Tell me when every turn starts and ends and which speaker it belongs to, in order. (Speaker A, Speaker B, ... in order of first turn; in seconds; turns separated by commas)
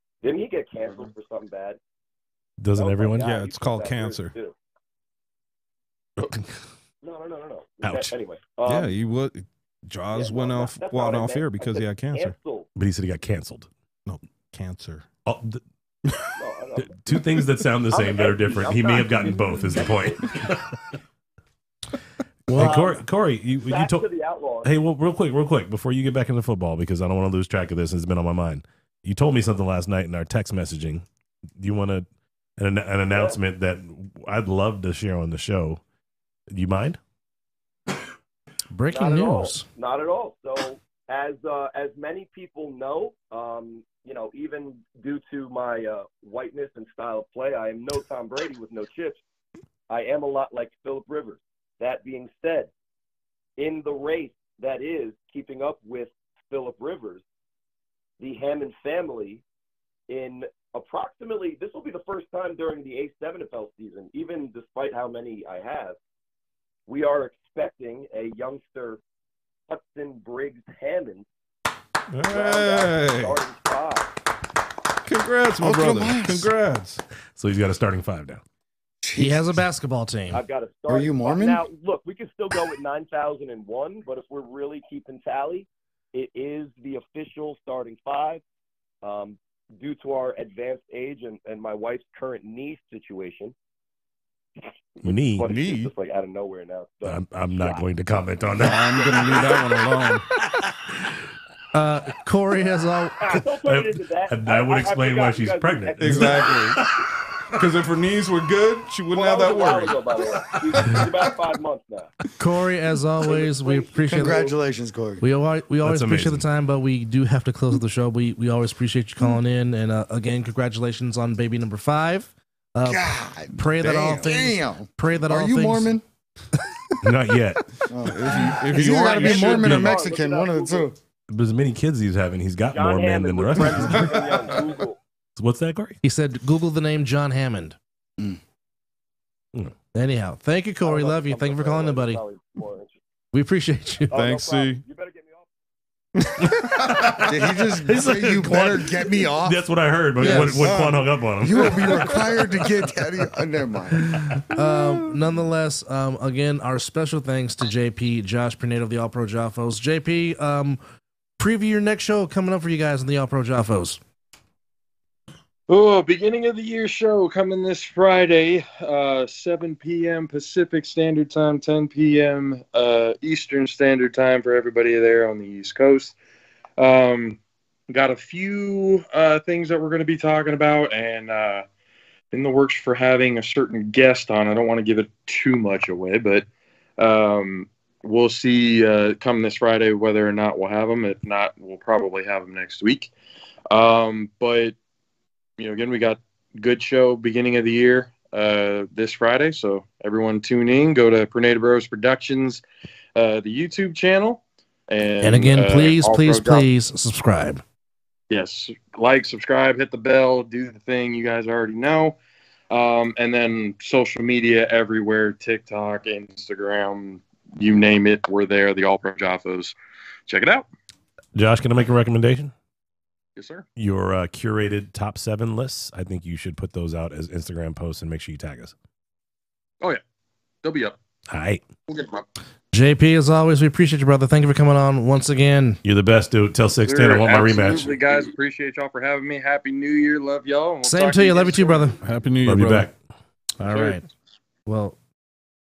Speaker A: 0.2-1.8, Speaker B: 2.6-3.3, Speaker A: 2.7-4.5, Speaker C: 3.2-4.3, Speaker B: 6.2-6.5, Speaker A: 7.0-8.9, Speaker B: 7.8-8.2, Speaker C: 8.6-12.3, Speaker A: 10.1-12.7, Speaker B: 12.8-13.7, Speaker C: 14.1-15.1, Speaker B: 15.2-15.6, Speaker A: 16.4-16.9, Speaker B: 16.8-20.8, Speaker A: 17.9-20.2, Speaker C: 19.6-19.9, Speaker D: 22.5-22.8, Speaker B: 22.5-24.0, Speaker A: 22.6-23.1, Speaker A: 23.6-24.7, Speaker B: 24.6-31.0, Speaker B: 31.6-32.0, Speaker B: 32.6-35.8, Speaker A: 33.1-33.4, Speaker B: 36.5-37.0, Speaker D: 38.7-39.6, Speaker A: 38.9-49.2, Speaker A: 49.9-52.7, Speaker A: 53.6-57.2, Speaker A: 58.2-59.4, Speaker A: 60.1-66.0, Speaker A: 66.9-69.0, Speaker A: 69.7-71.2, Speaker C: 72.2-73.4, Speaker A: 72.3-74.1, Speaker C: 75.0-77.0, Speaker E: 75.6-76.5, Speaker B: 77.4-78.4, Speaker E: 79.0-79.6, Speaker D: 79.2-80.4, Speaker A: 80.3-88.4, Speaker E: 80.9-81.6, Speaker A: 89.0-93.5, Speaker A: 95.0-97.8, Speaker B: 95.0-95.5, Speaker C: 95.4-95.9, Speaker B: 97.0-99.5, Speaker C: 98.5-100.3, Speaker A: 99.0-99.5, Speaker D: 101.7-103.3, Speaker A: 103.2-106.7, Speaker B: 103.7-107.0, Speaker C: 106.0-106.8, Speaker C: 107.5-111.1, Speaker A: 109.1-112.1, Speaker D: 112.4-114.5, Speaker A: 113.2-114.5, Speaker E: 114.1-115.2, Speaker D: 115.2-125.9, Speaker B: 115.8-116.4, Speaker E: 122.8-126.0, Speaker B: 127.0-127.7, Speaker E: 127.9-131.0, Speaker C: 128.0-130.0, Speaker A: 128.8-130.9, Speaker B: 129.6-129.9, Speaker B: 131.3-134.5, Speaker A: 132.7-135.0, Speaker C: 134.2-134.5, Speaker B: 135.4-136.0, Speaker D: 136.0-137.8, Speaker D: 139.9-142.2, Speaker A: 140.8-142.9, Speaker D: 143.3-144.2, Speaker A: 144.1-145.5, Speaker C: 144.1-144.8, Speaker C: 146.2-147.2, Speaker B: 146.8-147.3, Speaker E: 147.1-149.6, Speaker B: 147.8-152.4, Speaker E: 150.2-154.2, Speaker D: 150.2-150.7, Speaker D: 154.5-160.8, Speaker D: 161.4-164.0, Speaker F: 165.7-176.1, Speaker F: 176.8-181.7, Speaker F: 182.3-186.4, Speaker F: 187.0-193.1, Speaker F: 193.7-194.8, Speaker F: 195.6-202.6, Speaker F: 203.1-206.7, Speaker D: 205.2-207.6, Speaker F: 208.3-212.2, Speaker F: 212.7-219.7, Speaker F: 220.3-220.7, Speaker B: 221.3-222.5, Speaker F: 223.4-223.7, Speaker B: 223.8-228.7, Speaker F: 230.6-230.9, Speaker B: 231.3-231.6, Speaker F: 231.9-232.2, Speaker D: 232.7-235.8, Speaker B: 235.8-238.0, Speaker F: 236.8-242.0, Speaker D: 240.8-242.0, Speaker C: 242.0-242.9, Speaker B: 242.4-242.9, Speaker D: 243.6-244.0, Speaker F: 243.7-244.0, Speaker D: 244.7-245.0